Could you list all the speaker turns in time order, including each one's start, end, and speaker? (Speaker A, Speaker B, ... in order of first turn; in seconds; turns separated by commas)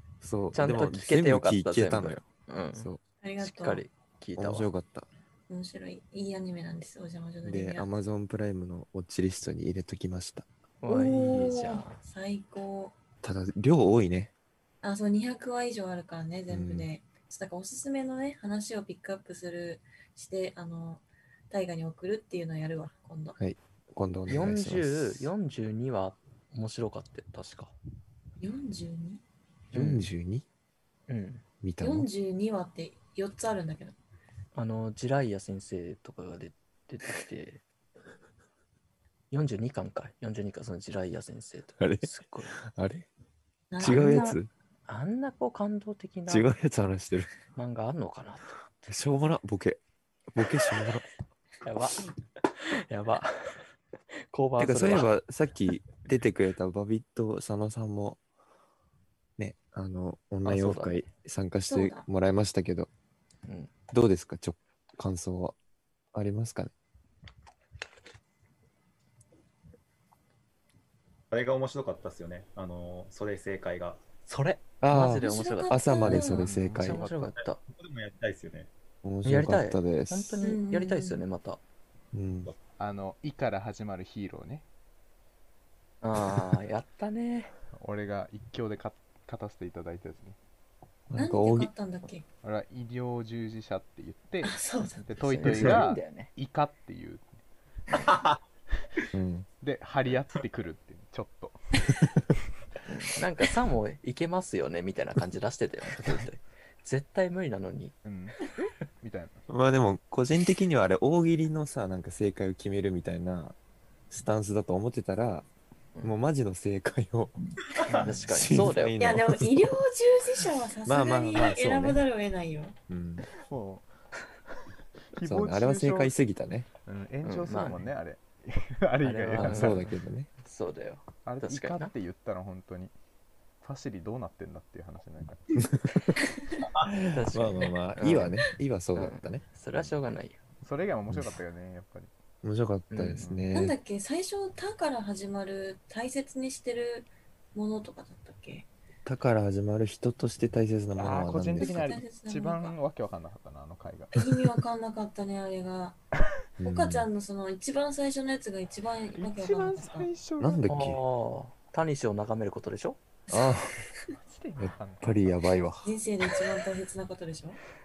Speaker A: 0.2-2.2, Speaker B: 0.5-2.9, Speaker A: 2.8-3.0, Speaker C: 3.2-3.8, Speaker B: 3.4-4.7, Speaker A: 4.4-5.1, Speaker C: 5.5-7.9, Speaker A: 7.4-10.5, Speaker B: 10.8-12.0, Speaker C: 10.9-12.9, Speaker A: 13.2-14.3, Speaker C: 14.8-23.4, Speaker A: 16.5-16.9, Speaker A: 23.4-25.3, Speaker B: 24.3-27.7, Speaker C: 28.4-29.2, Speaker B: 29.7-30.1, Speaker A: 29.7-30.4, Speaker B: 31.1-31.4, Speaker A: 31.6-32.1, Speaker C: 31.8-34.0, Speaker B: 34.5-37.6, Speaker B: 39.3-42.6, Speaker A: 41.8-43.1, Speaker C: 43.7-44.4, Speaker A: 43.8-44.5, Speaker B: 43.8-46.5, Speaker A: 46.3-47.3, Speaker B: 47.5-48.6, Speaker A: 48.9-49.8, Speaker A: 50.3-51.0, Speaker B: 51.6-53.6, Speaker B: 54.3-55.1, Speaker A: 54.6-58.2, Speaker A: 59.4-62.9, Speaker B: 60.4-61.1, Speaker C: 61.7-62.1, Speaker A: 63.9-65.6, Speaker A: 66.1-66.7, Speaker D: 71.3-74.0, Speaker B: 74.3-77.6, Speaker A: 74.8-77.3, Speaker C: 74.9-76.5, Speaker E: 76.5-77.0, Speaker D: 77.4-78.7, Speaker A: 79.0-80.4, Speaker B: 79.2-81.6, Speaker C: 80.4-81.2, Speaker A: 82.1-82.5, Speaker E: 82.8-84.7, Speaker B: 86.0-87.5, Speaker E: 87.8-90.4, Speaker A: 91.1-91.7, Speaker C: 91.2-92.2, Speaker E: 92.4-97.3, Speaker C: 94.4-95.1, Speaker B: 95.2-96.3, Speaker A: 95.5-95.8, Speaker D: 97.9-98.4, Speaker A: 99.1-99.5, Speaker E: 99.6-101.6, Speaker B: 102.9-108.0, Speaker E: 108.0-109.4, Speaker A: 109.5-113.6, Speaker A: 114.1-115.5, Speaker A: 116.0-117.4, Speaker E: 117.9-118.2, Speaker B: 117.9-119.0, Speaker A: 118.2-119.8, Speaker C: 119.0-122.8, Speaker A: 120.8-122.0, Speaker A: 122.9-123.3, Speaker E: 123.3-123.9, Speaker E: 125.1-126.2, Speaker A: 125.2-126.7, Speaker E: 126.8-129.9, Speaker B: 127.2-127.9, Speaker B: 129.0-131.9, Speaker A: 129.4-130.3, Speaker E: 131.2-132.9, Speaker E: 133.6-135.4, Speaker A: 136.8-139.4, Speaker B: 137.0-138.4, Speaker B: 138.9-140.4, Speaker E: 140.6-142.1, Speaker A: 141.1-141.4, Speaker A: 142.4-143.8, Speaker B: 142.9-143.2, Speaker E: 143.2-143.5, Speaker C: 143.5-148.7, Speaker A: 149.1-151.8, Speaker E: 150.9-154.4, Speaker C: 151.5-152.8, Speaker C: 154.2-156.0, Speaker A: 156.6-157.1, Speaker C: 156.6-160.1, Speaker E: 159.2-160.9, Speaker A: 160.4-161.0, Speaker B: 160.7-163.0, Speaker A: 163.3-163.8, Speaker C: 163.3-164.1, Speaker E: 164.2-165.4, Speaker A: 164.6-165.9, Speaker C: 165.8-167.6